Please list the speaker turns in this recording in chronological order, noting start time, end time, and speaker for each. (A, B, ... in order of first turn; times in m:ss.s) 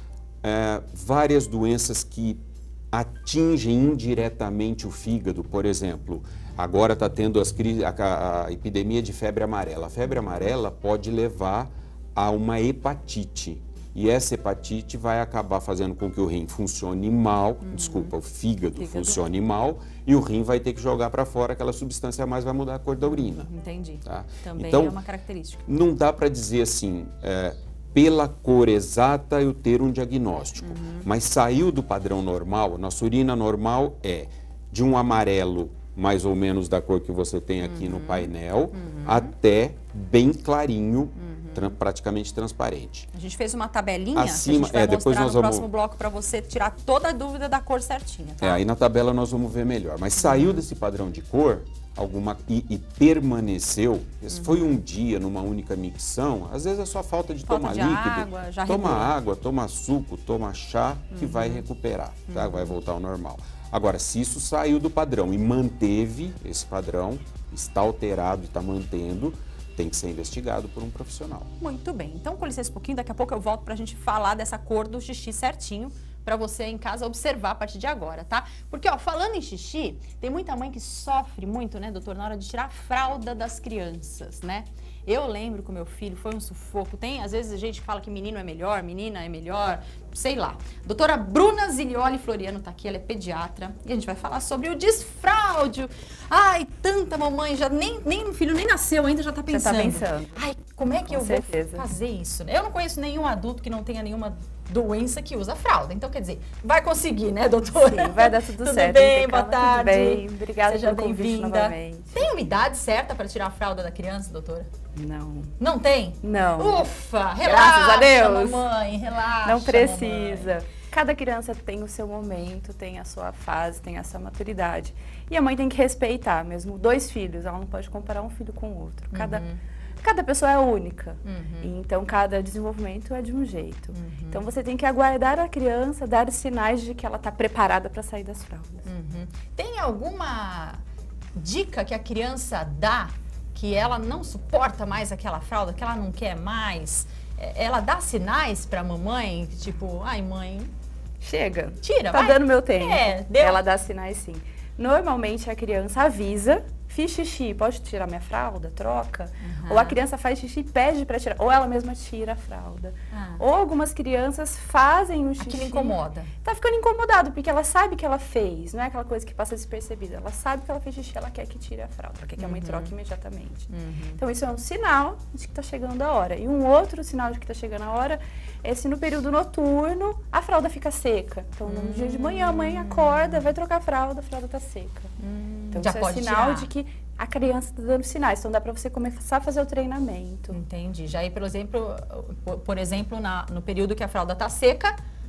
0:00.4-0:23.5 A
0:17.6-0:18.1 B
0:18.7-0:19.2 B
0:23.0-0:25.6 B
0:24.0-0:25.0 A
0:25.6-0:43.1 A
0:30.6-0:31.0 B
0:37.6-0:39.3 B
0:41.2-0:41.7 B
0:43.1-0:48.6 B
0:44.1-0:45.7 A
0:48.4-1:11.5 A
0:50.2-0:50.6 B
0:54.3-0:54.6 B
0:57.5-0:59.1 B
1:01.1-1:01.6 B
1:02.3-1:02.7 B
1:11.6-1:54.7 B
1:39.5-1:40.4 C
1:41.0-1:41.8 C
1:47.7-1:52.2 C
1:54.9-1:55.5 C
1:55.6-2:00.5 B
1:56.2-1:56.9 C
1:57.4-1:58.7 C
1:59.4-2:09.4 C
2:09.1-2:09.6 B
2:10.0-2:18.8 C
2:11.2-2:11.7 B
2:13.9-2:14.4 B
2:18.8-2:20.8 B
2:21.3-2:30.7 B
2:31.2-3:05.1 C
2:31.8-2:33.6 B
2:39.4-2:40.0 B
2:43.1-2:43.4 B
2:45.4-2:46.3 B
2:52.4-2:52.9 B
2:53.7-2:54.2 B
3:01.6-3:03.3 B
3:05.2-3:06.7 B
3:05.7-3:10.6 C
3:10.5-3:15.0 B